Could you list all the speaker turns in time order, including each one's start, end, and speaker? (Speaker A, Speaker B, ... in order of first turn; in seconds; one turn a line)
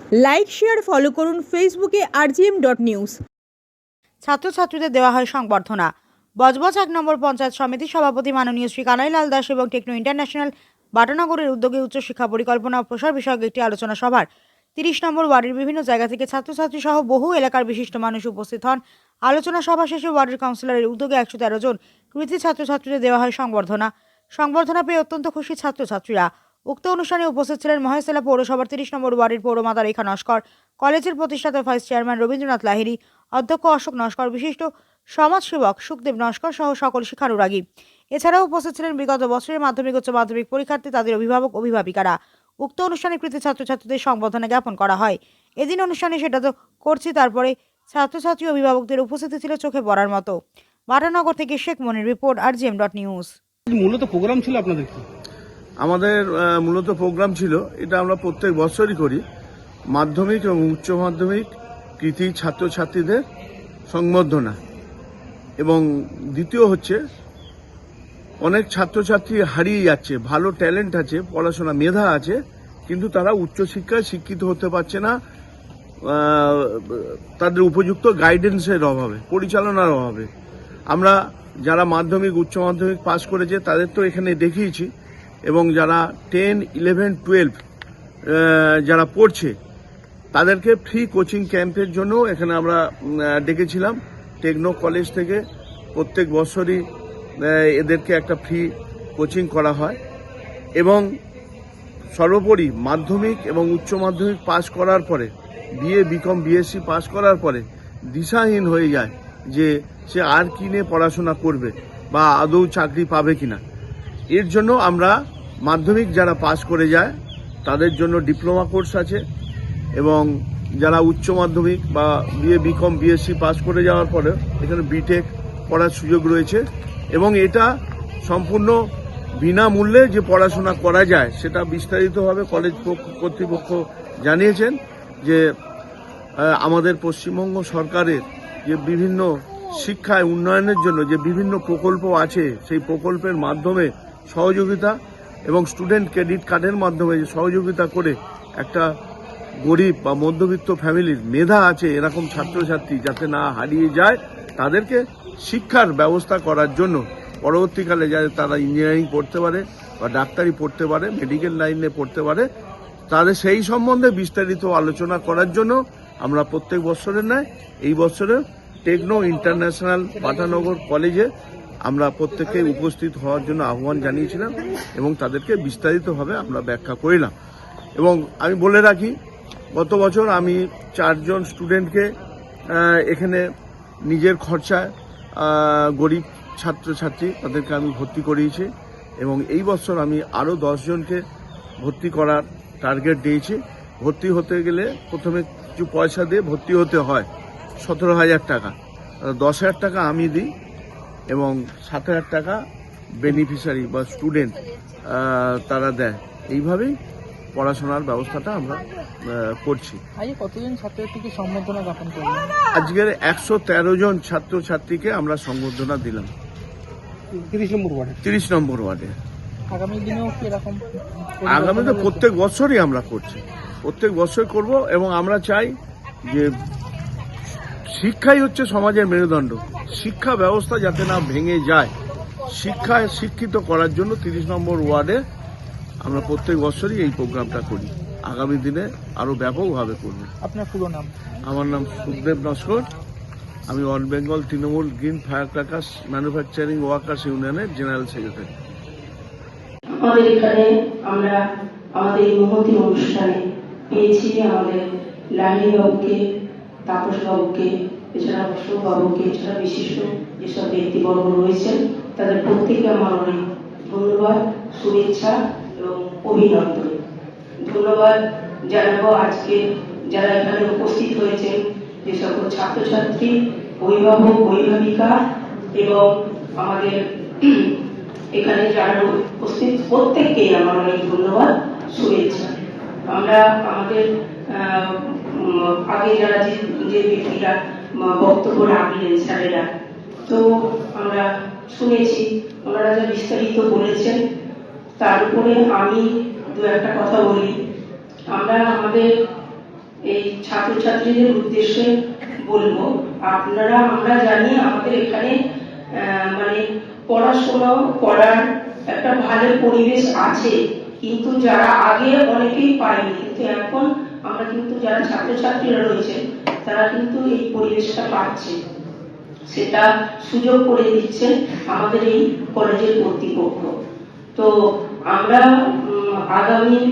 Speaker A: 0.2-3.2
Speaker B: 4.2-37.6
Speaker B: 38.1-50.4
Speaker B: 50.9-53.3
Speaker C: 53.7-55.1
Speaker D: 55.8-59.2
Speaker D: 59.9-63.2
Speaker D: 63.9-64.6
Speaker D: 65.6-67.0
Speaker D: 68.4-72.4
Speaker D: 72.9-75.2
Speaker D: 76.0-80.3
Speaker D: 80.9-84.9
Speaker D: 85.5-87.6
Speaker D: 88.3-89.5
Speaker D: 90.3-95.4
Speaker D: 96.0-96.8
Speaker D: 97.4-100.0
Speaker D: 100.8-101.0
Speaker D: 102.1-113.6
Speaker D: 114.3-117.1
Speaker D: 117.7-119.2
Speaker D: 120.0-120.3
Speaker D: 120.8-126.6
Speaker D: 127.1-127.7
Speaker D: 128.2-128.8
Speaker D: 129.4-135.4
Speaker D: 136.4-144.9
Speaker D: 145.5-148.9
Speaker D: 149.6-162.5
Speaker D: 163.1-171.3
Speaker D: 171.8-177.3
Speaker D: 178.0-179.2
Speaker D: 179.8-182.1
Speaker D: 182.7-183.4
Speaker D: 184.1-188.7
Speaker D: 189.2-191.2
Speaker D: 191.8-197.3
Speaker D: 197.8-200.5
Speaker D: 201.3-202.6
Speaker D: 203.2-204.6
Speaker D: 205.1-206.9
Speaker D: 207.6-210.0
Speaker E: 210.2-212.5
Speaker D: 212.8-216.3
Speaker C: 217.3-218.2
Speaker D: 218.2-219.1
Speaker E: 219.7-222.2
Speaker D: 221.5-225.7
Speaker D: 227.9-231.9
Speaker D: 232.5-235.2
Speaker D: 236.0-240.3
Speaker E: 240.4-241.1
Speaker D: 241.4-242.9
Speaker D: 243.7-248.5
Speaker F: 250.0-251.4
Speaker F: 252.0-253.4
Speaker F: 253.9-254.8
Speaker F: 255.4-256.2
Speaker F: 256.9-266.9
Speaker F: 267.7-268.1
Speaker F: 268.7-269.6
Speaker F: 270.1-271.5
Speaker F: 272.1-273.3
Speaker F: 273.8-275.1
Speaker F: 275.8-276.1
Speaker F: 276.6-277.7
Speaker F: 278.4-282.5
Speaker F: 283.1-289.6
Speaker F: 291.0-294.2
Speaker F: 295.0-296.0
Speaker F: 296.6-297.5
Speaker F: 298.3-299.1
Speaker F: 300.1-301.9
Speaker F: 302.4-305.3
Speaker F: 305.9-306.6
Speaker F: 307.1-308.4
Speaker F: 308.9-318.5
Speaker F: 319.5-323.7
Speaker F: 325.1-326.8